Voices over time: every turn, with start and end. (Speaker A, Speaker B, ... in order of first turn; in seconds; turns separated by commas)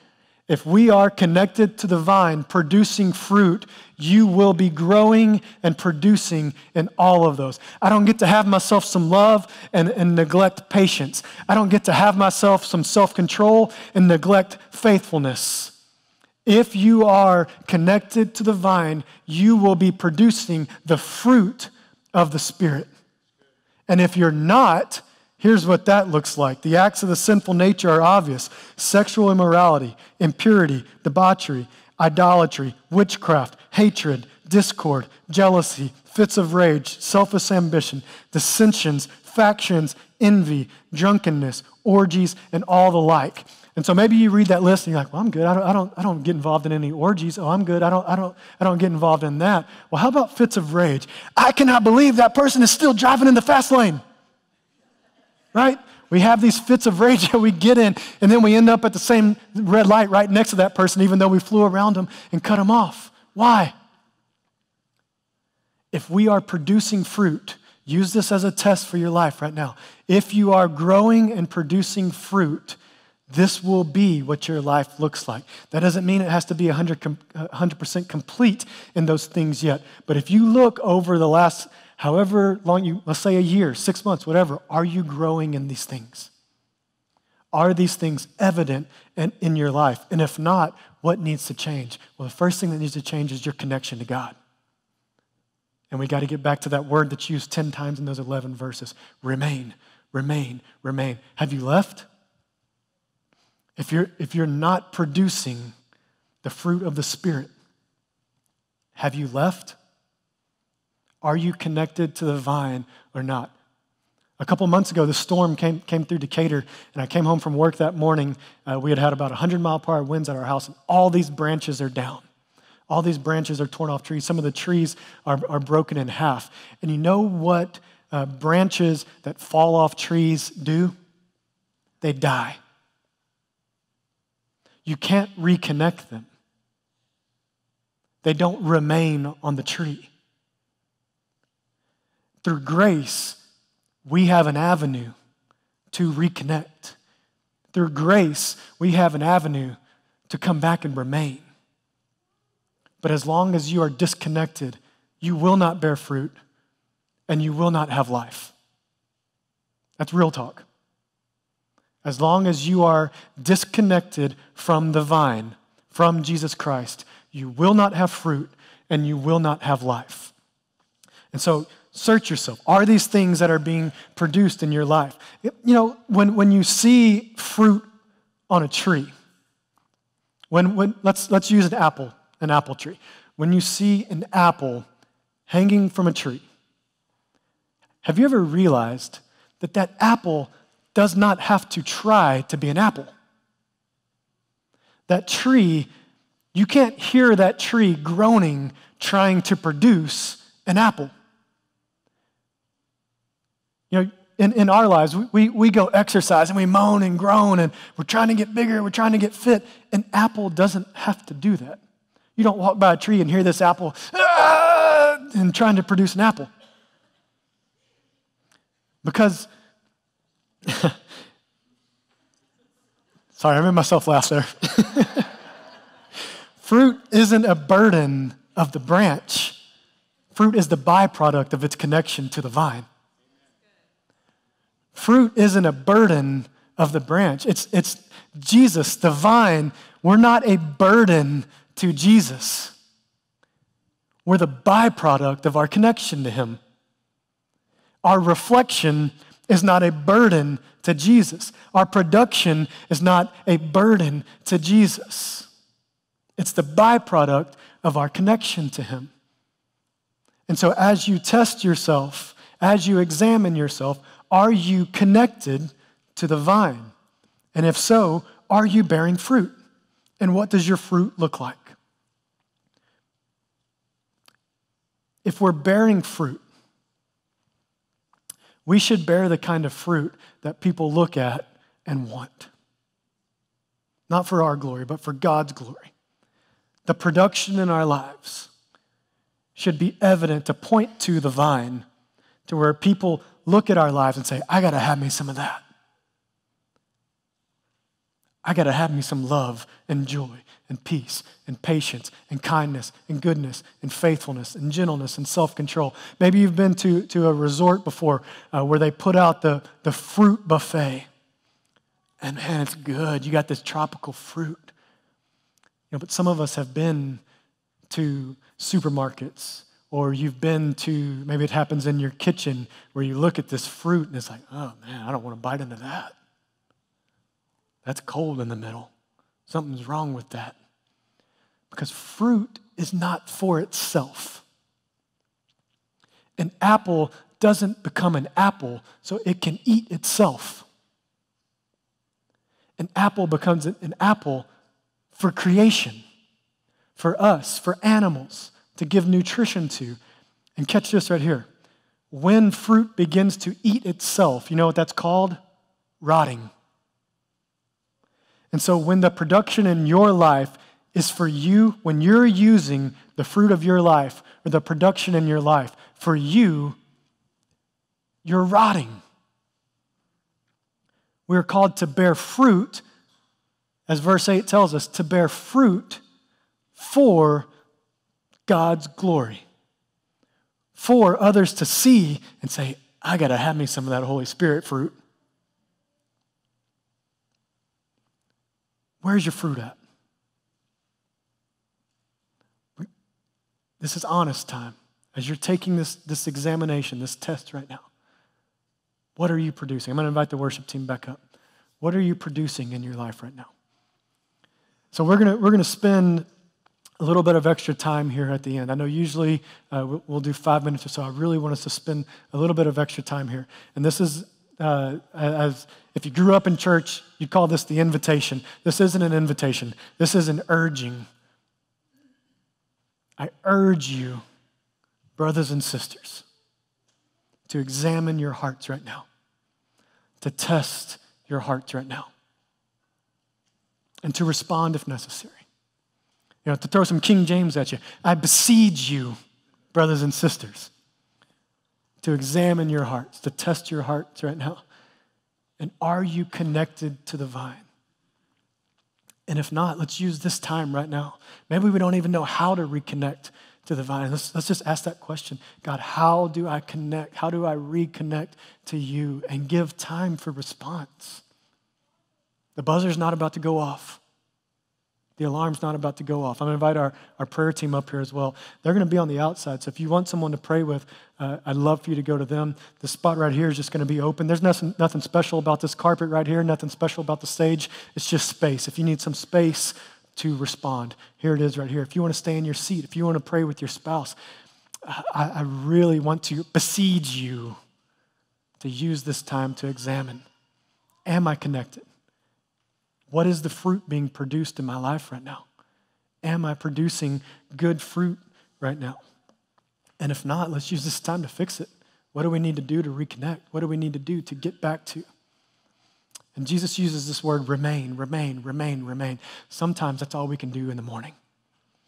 Speaker A: 0.5-15.7, Speaker A: 16.4-22.9, Speaker A: 23.9-54.0, Speaker A: 55.5-63.7, Speaker A: 65.9-72.8, Speaker A: 73.3-86.3, Speaker A: 87.5-94.3, Speaker A: 95.9-102.0, Speaker A: 103.8-105.7, Speaker A: 106.4-107.5, Speaker A: 109.0-109.8, Speaker A: 111.2-113.5, Speaker A: 114.4-122.2, Speaker A: 122.9-130.9, Speaker A: 132.0-132.6, Speaker A: 134.8-136.3, Speaker A: 138.2-140.1, Speaker A: 142.4-143.4, Speaker A: 144.0-145.1, Speaker A: 145.9-146.9, Speaker A: 147.7-149.8, Speaker A: 150.3-151.4, Speaker A: 153.0-156.3, Speaker A: 157.3-158.5, Speaker A: 160.0-160.7, Speaker A: 162.0-170.3, Speaker A: 171.3-177.9, Speaker A: 178.5-179.1, Speaker A: 180.5-184.8, Speaker A: 185.5-186.4, Speaker A: 188.0-193.1, Speaker A: 195.1-195.9, Speaker A: 196.5-201.1, Speaker A: 203.9-211.8, Speaker A: 212.3-216.5, Speaker A: 219.0-219.5, Speaker A: 220.6-221.0, Speaker A: 223.3-225.3, Speaker A: 226.6-229.6, Speaker A: 230.3-232.8, Speaker A: 234.9-242.7, Speaker A: 244.2-246.6, Speaker A: 248.0-255.5, Speaker A: 256.4-259.1, Speaker A: 260.5-266.9, Speaker A: 267.5-269.5, Speaker A: 270.2-271.8, Speaker A: 275.2-276.4, Speaker A: 278.6-282.5, Speaker A: 284.1-285.9, Speaker A: 286.9-288.5, Speaker A: 289.6-291.8, Speaker A: 292.4-295.6, Speaker A: 298.4-311.1, Speaker A: 312.2-314.7, Speaker A: 315.9-317.2, Speaker A: 317.9-326.1, Speaker A: 327.8-328.9, Speaker A: 329.5-330.5, Speaker A: 331.7-334.4, Speaker A: 336.4-340.6, Speaker A: 342.8-344.5, Speaker A: 345.1-346.0, Speaker A: 347.0-350.0, Speaker A: 350.6-351.5, Speaker A: 352.1-355.4, Speaker A: 356.0-356.5, Speaker A: 358.5-366.8, Speaker A: 368.2-369.0, Speaker A: 371.3-372.8, Speaker A: 373.9-376.0, Speaker A: 376.8-377.5, Speaker A: 378.5-379.4, Speaker A: 380.7-384.9, Speaker A: 389.0-389.8, Speaker A: 393.8-397.9, Speaker A: 399.1-401.2, Speaker A: 401.8-403.5, Speaker A: 404.9-406.2, Speaker A: 407.0-421.1, Speaker A: 423.2-424.2, Speaker A: 425.2-426.2, Speaker A: 427.5-429.1, Speaker A: 430.2-432.1, Speaker A: 434.0-435.4, Speaker A: 436.4-439.1, Speaker A: 439.7-440.7, Speaker A: 442.0-444.6, Speaker A: 445.6-447.6, Speaker A: 449.3-461.2, Speaker A: 462.6-464.0, Speaker A: 465.2-484.1, Speaker A: 484.8-487.6, Speaker A: 488.6-490.2, Speaker A: 491.1-491.9, Speaker A: 493.1-495.4, Speaker A: 496.2-499.0, Speaker A: 500.0-505.1, Speaker A: 506.3-511.1